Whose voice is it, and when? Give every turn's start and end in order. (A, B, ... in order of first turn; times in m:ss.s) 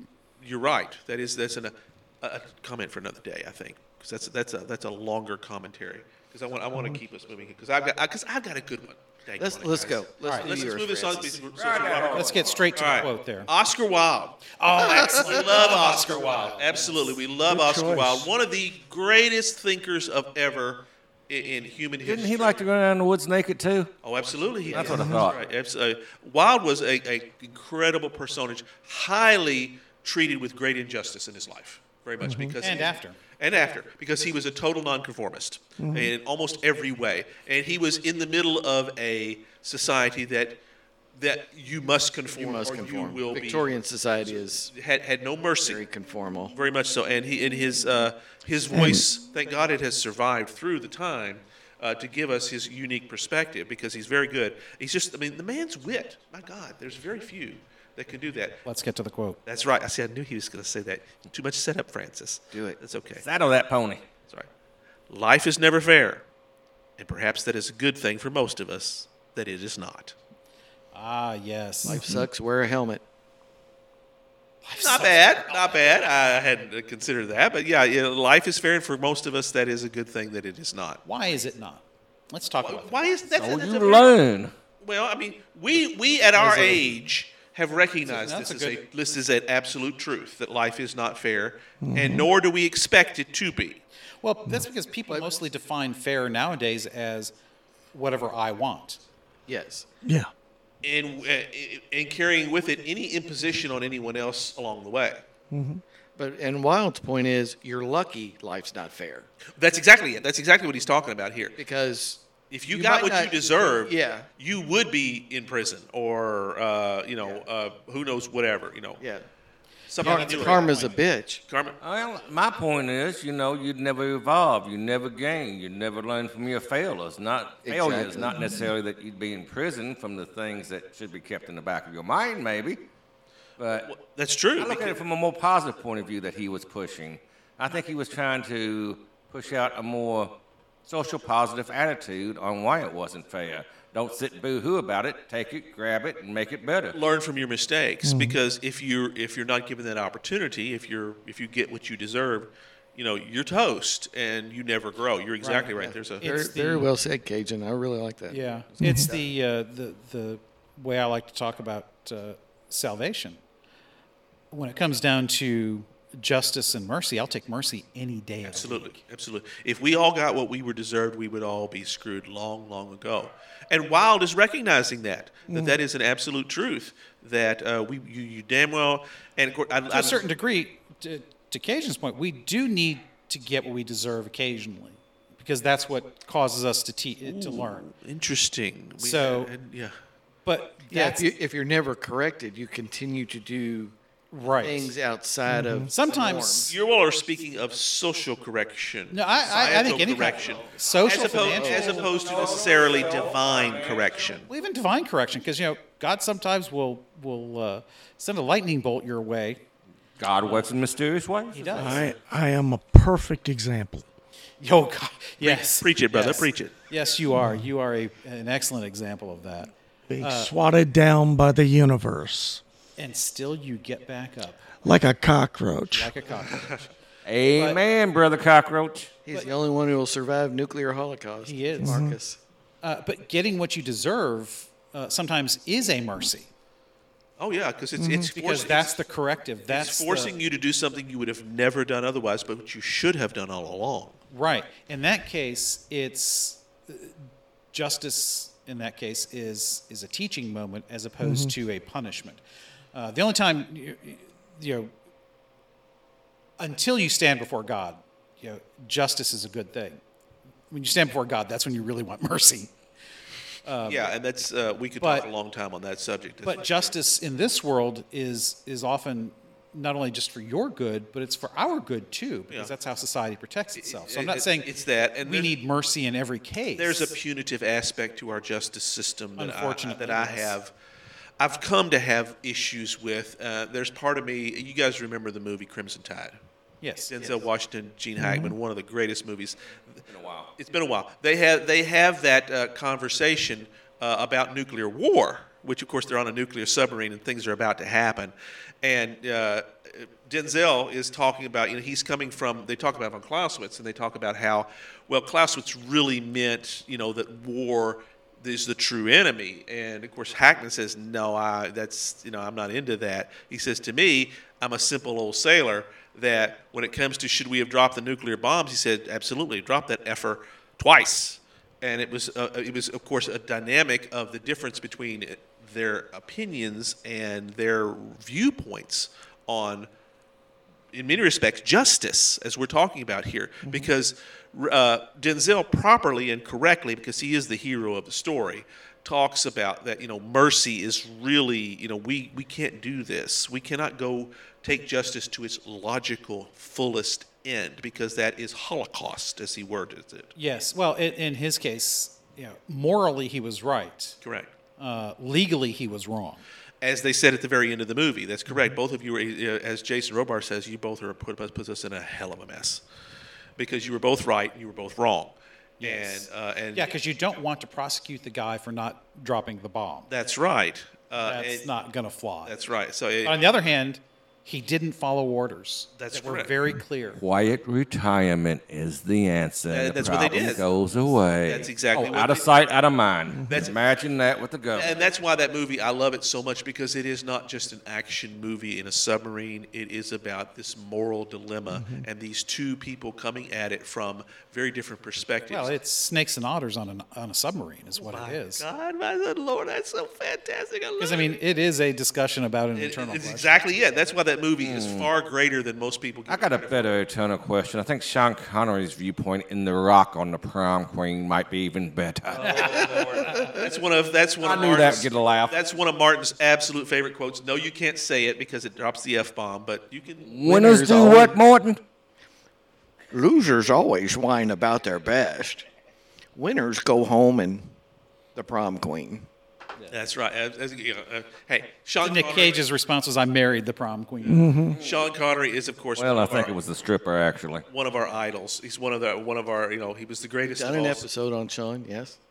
0:00.4-0:22.6 A
0:09.4-0:11.5 B
0:10.2-0:10.6 C
0:11.5-0:12.7 D
0:12.1-0:13.5 C
0:14.5-0:17.1 C
0:14.8-0:15.3 B
0:17.5-0:18.3 E
0:22.0-0:23.9 D
0:24.0-0:40.6 A
0:24.7-0:25.4 D
0:24.7-0:25.3 B
0:24.9-0:25.2 E
0:32.2-0:32.6 E
0:32.6-0:33.2 C
0:35.8-0:36.1 E
0:41.2-0:45.8 A
0:42.4-0:44.7 B
0:45.6-0:46.5 B
0:46.5-0:58.6 A
0:48.7-0:49.0 E
0:58.6-0:59.4 C
0:59.4-1:03.2 A
1:02.5-1:02.8 B
1:03.2-1:04.0 D
1:05.1-1:06.2 A
1:07.0-1:10.1 A
1:10.9-1:12.0 C
1:11.8-1:12.3 E
1:11.8-1:13.0 B
1:14.6-1:15.8 C
1:14.8-1:21.0 A
1:21.0-1:23.0 C
1:22.6-1:24.1 A
1:23.3-1:24.5 D
1:24.8-1:33.8 A
1:26.4-1:26.8 C
1:28.0-1:28.8 C
1:31.8-1:32.3 E
1:34.2-1:37.3 C
1:37.9-1:39.0 C
1:39.5-1:39.9 B
1:40.0-1:40.3 E
1:40.8-1:45.2 A
1:45.5-1:45.8 E
1:46.2-1:49.3 B
1:49.6-1:51.6 A
1:51.6-1:54.3 B
1:52.5-1:59.0 A
1:59.0-1:59.2 B
1:59.9-2:00.7 A
2:00.0-2:01.0 C
2:00.0-2:01.4 B
2:01.5-2:01.8 A
2:01.8-2:12.8 D
2:07.6-2:08.6 B
2:13.6-2:13.9 D
2:13.8-2:15.0 A
2:14.6-2:20.3 D
2:20.8-2:27.0 D
2:26.9-2:36.3 A
2:28.0-2:28.4 E
2:35.4-2:36.9 C
2:36.2-2:39.2 B
2:38.3-2:43.4 C
2:38.8-2:39.1 E
2:44.5-2:49.0 C
2:48.4-3:00.2 A
2:55.5-2:55.8 E
2:59.9-3:07.9 C
3:07.2-3:10.0 A
3:09.0-3:09.5 C
3:10.4-3:11.3 C
3:10.9-3:13.9 B
3:14.3-3:14.9 C
3:14.6-3:16.7 B
3:15.5-3:15.9 E
3:15.9-3:16.7 C
3:16.6-3:24.5 A
3:19.1-3:22.1 C
3:21.5-3:24.3 D
3:21.6-3:22.0 B
3:24.5-3:29.6 C
3:30.2-3:32.1 D
3:31.5-3:32.1 C
3:31.8-3:34.0 E
3:34.6-3:40.5 C
3:35.4-3:36.7 A
3:40.1-3:42.6 E
3:43.0-3:44.9 C
3:44.8-3:46.3 E
3:45.9-3:46.8 C
3:47.2-3:49.1 D
3:47.5-3:47.8 C
3:49.2-3:52.4 B
3:51.4-3:52.0 C
3:51.8-3:52.2 E
3:52.8-3:56.5 C
3:57.4-3:59.0 A
3:58.0-3:58.3 E
3:58.3-4:00.3 C
3:59.7-4:04.2 A
4:04.3-4:12.4 C
4:11.2-4:11.5 E
4:12.9-4:14.9 C
4:16.6-4:20.0 C
4:20.7-4:22.7 C
4:23.6-4:24.1 C
4:23.8-4:26.9 A
4:25.0-4:25.3 C
4:26.4-4:34.7 C
4:33.8-4:35.5 A
4:35.2-4:37.1 C
4:36.8-4:40.7 A
4:39.4-4:40.6 C
4:41.4-4:46.4 A
4:46.8-4:47.1 C
4:47.1-4:50.0 A
4:48.2-4:48.5 E
4:50.1-4:50.5 D
4:50.6-5:29.9 A
5:30.9-5:50.3 A
5:50.3-5:54.2 C
5:54.2-5:54.5 A
5:54.8-5:56.4 C
5:56.8-6:02.8 A
6:03.6-6:06.9 A
6:05.8-6:10.1 C
6:10.1-6:11.7 A
6:11.2-6:12.5 C
6:12.4-6:13.4 A
6:13.2-6:17.2 C
6:16.0-6:16.5 A
6:17.1-6:25.0 D
6:19.7-6:20.6 A
6:21.4-6:22.6 A
6:23.3-6:23.6 E
6:23.5-6:23.7 A
6:24.7-6:35.7 A
6:31.7-6:32.0 E
6:35.5-6:38.6 C
6:38.0-6:41.4 A
6:41.0-6:43.5 C
6:42.7-6:46.9 A
6:44.6-6:45.1 D
6:46.3-6:53.5 D
6:52.3-7:00.4 A
6:52.4-6:52.8 C
6:54.4-6:55.6 D
7:00.2-7:01.8 D
7:00.4-7:01.4 B
7:03.1-7:05.6 B
7:06.3-7:07.7 B
7:08.3-7:09.3 B
7:09.9-7:12.6 A
7:12.0-7:14.6 C
7:14.2-7:14.8 E
7:14.7-7:15.0 D
7:14.8-7:16.6 A
7:16.0-7:17.6 D
7:17.7-7:21.1 A
7:20.5-7:22.2 B